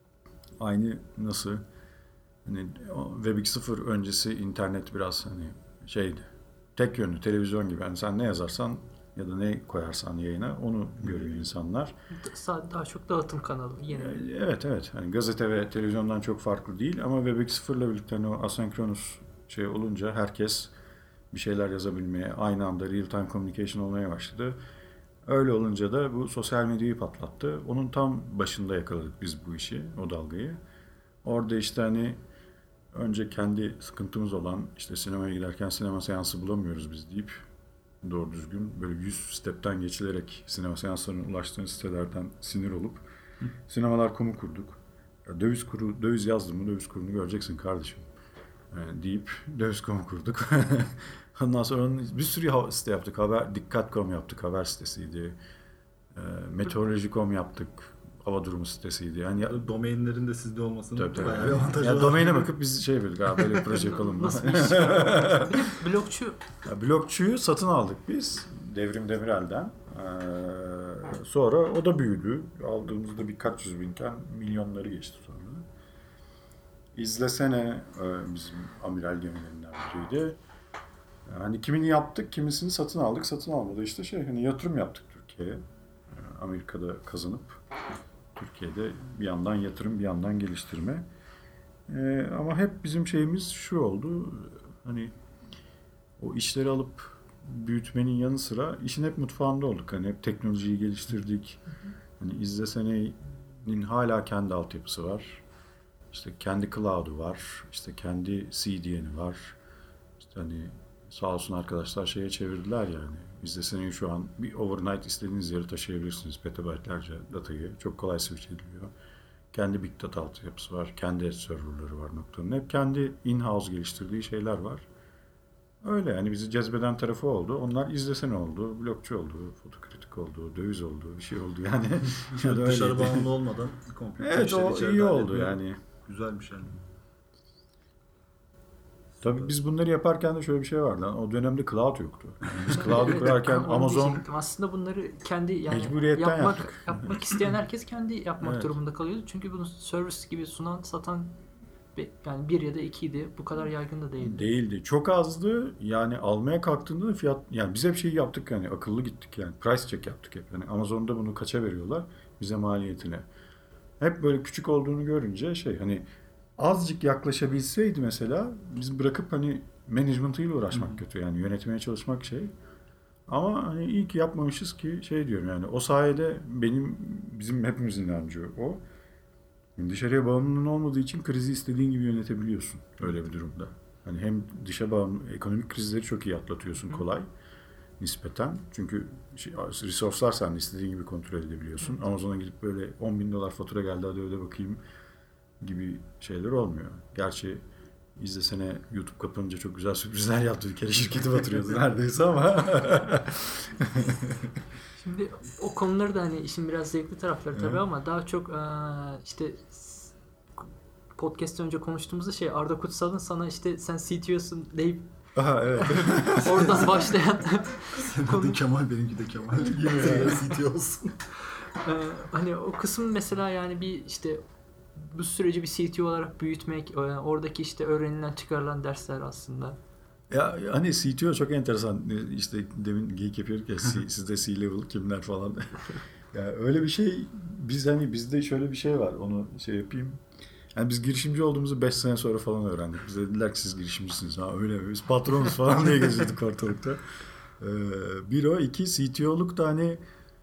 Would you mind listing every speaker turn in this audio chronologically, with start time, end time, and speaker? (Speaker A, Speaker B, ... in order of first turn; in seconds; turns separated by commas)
Speaker A: 0.6-1.6, Speaker A: 2.4-11.9, Speaker B: 12.1-14.2, Speaker A: 13.9-20.7, Speaker A: 21.3-24.6, Speaker A: 25.2-30.6, Speaker A: 31.2-32.2, Speaker A: 32.9-37.4, Speaker A: 38.0-43.1, Speaker A: 43.7-48.1, Speaker A: 48.7-55.4, Speaker A: 56.1-59.6, Speaker C: 59.4-62.5, Speaker A: 60.9-65.7, Speaker B: 63.7-66.4, Speaker A: 66.6-75.7, Speaker A: 76.9-80.4, Speaker A: 81.2-87.6, Speaker A: 88.3-91.1, Speaker A: 91.9-95.1, Speaker A: 96.2-101.6, Speaker A: 102.2-105.4, Speaker A: 106.1-109.6, Speaker A: 110.2-118.9, Speaker A: 119.5-124.9, Speaker A: 125.8-133.3, Speaker C: 132.3-136.8, Speaker A: 134.2-135.8, Speaker A: 139.2-144.2, Speaker B: 142.7-151.4, Speaker A: 145.7-147.2, Speaker A: 148.4-148.8, Speaker B: 151.9-154.4, Speaker A: 154.2-163.2, Speaker A: 164.0-166.1, Speaker A: 166.6-172.5, Speaker A: 173.3-178.8, Speaker A: 179.8-187.3, Speaker A: 188.0-194.8, Speaker A: 195.6-197.6, Speaker A: 198.2-204.6, Speaker B: 204.9-210.1, Speaker A: 207.5-207.8, Speaker B: 211.2-215.1, Speaker A: 215.3-217.0, Speaker B: 215.8-218.6, Speaker C: 217.9-221.2, Speaker A: 219.7-220.5, Speaker B: 221.8-224.4, Speaker B: 224.9-229.8, Speaker A: 230.3-240.2, Speaker A: 240.7-247.0, Speaker A: 247.6-250.0